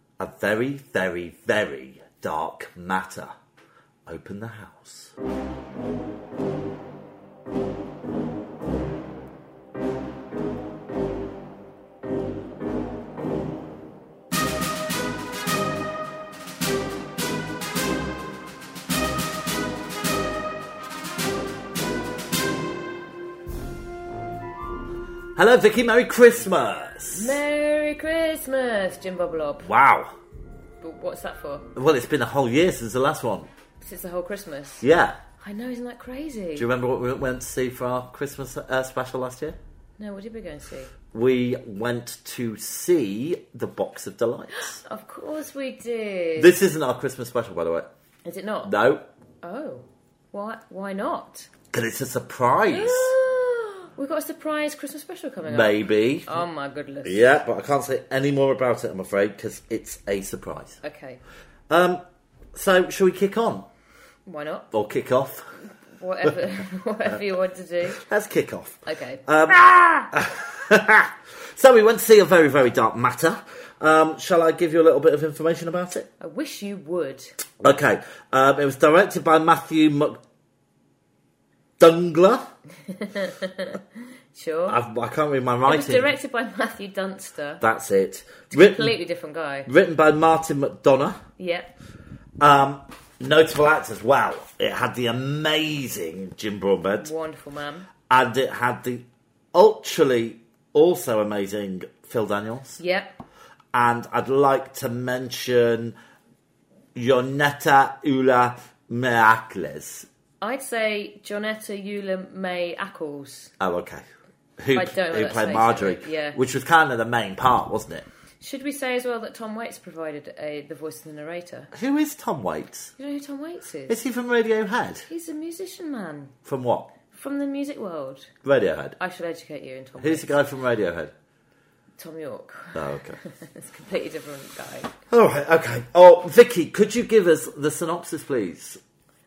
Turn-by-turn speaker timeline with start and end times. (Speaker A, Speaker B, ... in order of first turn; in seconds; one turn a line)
Speaker A: 0.2-3.3
Speaker A: 4.1-5.1
Speaker A: 25.4-27.4
Speaker B: 27.1-29.7
Speaker A: 29.6-30.1
Speaker B: 30.8-31.7
Speaker A: 31.8-33.5
Speaker B: 33.8-34.9
Speaker A: 34.8-35.2
Speaker B: 35.4-36.7
Speaker A: 36.6-39.6
Speaker B: 40.0-41.0
Speaker A: 41.1-44.8
Speaker B: 44.5-46.6
Speaker A: 46.4-47.9
Speaker B: 48.2-48.7
Speaker A: 48.6-49.0
Speaker B: 49.4-51.5
Speaker A: 51.7-53.1
Speaker B: 52.7-57.2
Speaker A: 55.5-56.3
Speaker A: 57.0-60.8
Speaker B: 60.8-61.2
Speaker A: 61.7-62.0
Speaker A: 62.5-63.7
Speaker B: 64.3-64.7
Speaker A: 64.7-65.6
Speaker B: 66.0-68.0
Speaker A: 68.0-76.1
Speaker B: 68.9-69.3
Speaker B: 76.2-77.3
Speaker A: 77.6-80.2
Speaker A: 81.8-82.5
Speaker B: 82.9-83.8
Speaker B: 84.3-84.8
Speaker A: 84.7-86.1
Speaker B: 85.7-87.6
Speaker A: 87.6-89.0
Speaker B: 88.5-89.7
Speaker A: 89.7-91.2
Speaker B: 91.4-91.7
Speaker A: 92.4-97.1
Speaker B: 97.0-97.9
Speaker A: 98.1-102.8
Speaker B: 102.8-103.2
Speaker A: 103.7-106.0
Speaker A: 107.0-110.1
Speaker B: 110.4-113.5
Speaker A: 113.6-114.0
Speaker A: 114.6-118.1
Speaker B: 114.7-116.4
Speaker B: 118.4-121.7
Speaker A: 121.7-122.9
Speaker B: 123.0-124.0
Speaker A: 123.9-125.1
Speaker B: 125.1-126.3
Speaker A: 126.5-126.9
Speaker B: 127.1-128.3
Speaker A: 128.4-129.0
Speaker B: 129.0-130.4
Speaker A: 130.0-131.1
Speaker B: 132.0-134.9
Speaker A: 132.8-133.2
Speaker A: 135.1-138.8